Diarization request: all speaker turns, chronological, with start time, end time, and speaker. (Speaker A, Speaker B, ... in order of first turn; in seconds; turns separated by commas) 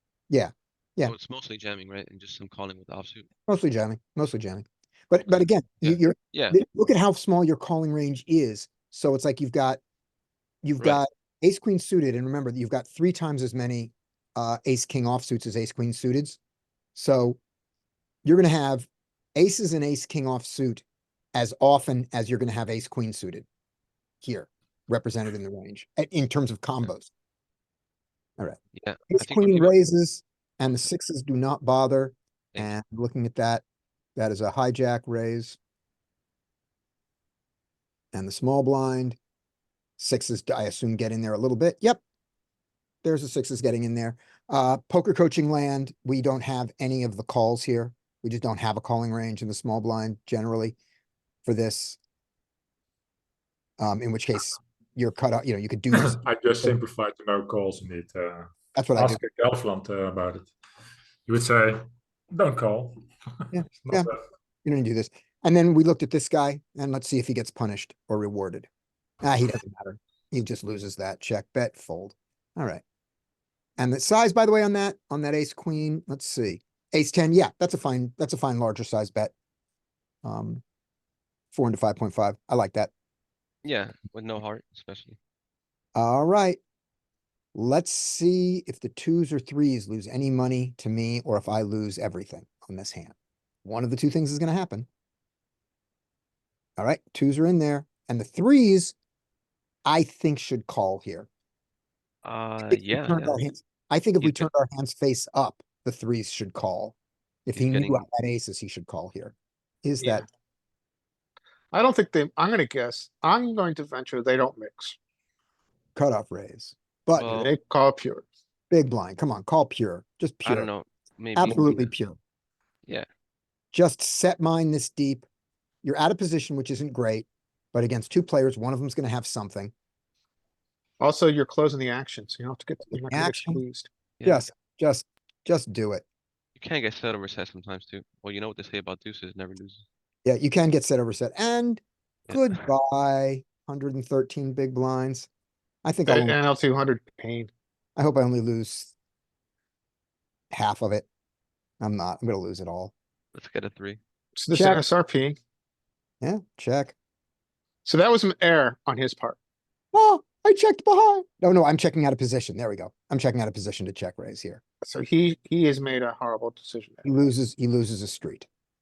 Speaker A: 0.3-1.1, Speaker B: 1.0-3.3, Speaker A: 3.5-9.8, Speaker B: 5.3-6.6, Speaker A: 10.6-16.4, Speaker A: 16.9-17.4, Speaker A: 18.2-23.4, Speaker A: 24.2-27.1, Speaker A: 28.4-33.6, Speaker B: 28.7-29.8, Speaker A: 34.1-35.6, Speaker A: 38.1-39.2, Speaker A: 40.0-42.0, Speaker A: 43.0-50.8, Speaker A: 51.5-52.0, Speaker A: 53.8-56.7, Speaker C: 55.9-60.5, Speaker A: 58.7-59.2, Speaker C: 61.2-64.2, Speaker A: 63.5-64.1, Speaker A: 64.6-68.7, Speaker A: 69.2-72.8, Speaker A: 73.8-79.3, Speaker A: 80.2-80.6, Speaker A: 81.5-82.9, Speaker B: 83.6-85.2, Speaker A: 85.9-86.6, Speaker A: 87.5-93.1, Speaker A: 93.6-94.9, Speaker A: 96.8-98.9, Speaker A: 99.8-101.3, Speaker B: 102.2-103.4, Speaker A: 102.7-110.2, Speaker B: 104.2-104.5, Speaker B: 107.5-108.0, Speaker D: 110.0-110.2, Speaker D: 111.7-115.0, Speaker A: 115.9-117.3, Speaker B: 117.2-117.5, Speaker D: 117.3-118.2, Speaker A: 118.7-120.7, Speaker B: 120.4-121.9, Speaker A: 121.3-122.2, Speaker A: 123.7-125.2, Speaker A: 125.8-129.7, Speaker D: 131.0-133.9, Speaker A: 132.9-133.6, Speaker A: 134.2-136.0, Speaker B: 136.6-139.8, Speaker A: 140.2-145.3, Speaker B: 142.3-142.6, Speaker A: 145.8-146.4, Speaker D: 146.1-147.5, Speaker A: 147.9-148.9, Speaker A: 150.5-151.1, Speaker A: 151.8-152.9, Speaker B: 153.3-154.0, Speaker D: 154.3-155.4, Speaker A: 154.5-154.8, Speaker A: 156.2-156.9, Speaker D: 157.8-159.4, Speaker A: 159.9-164.6, Speaker D: 164.8-167.1, Speaker A: 167.0-168.5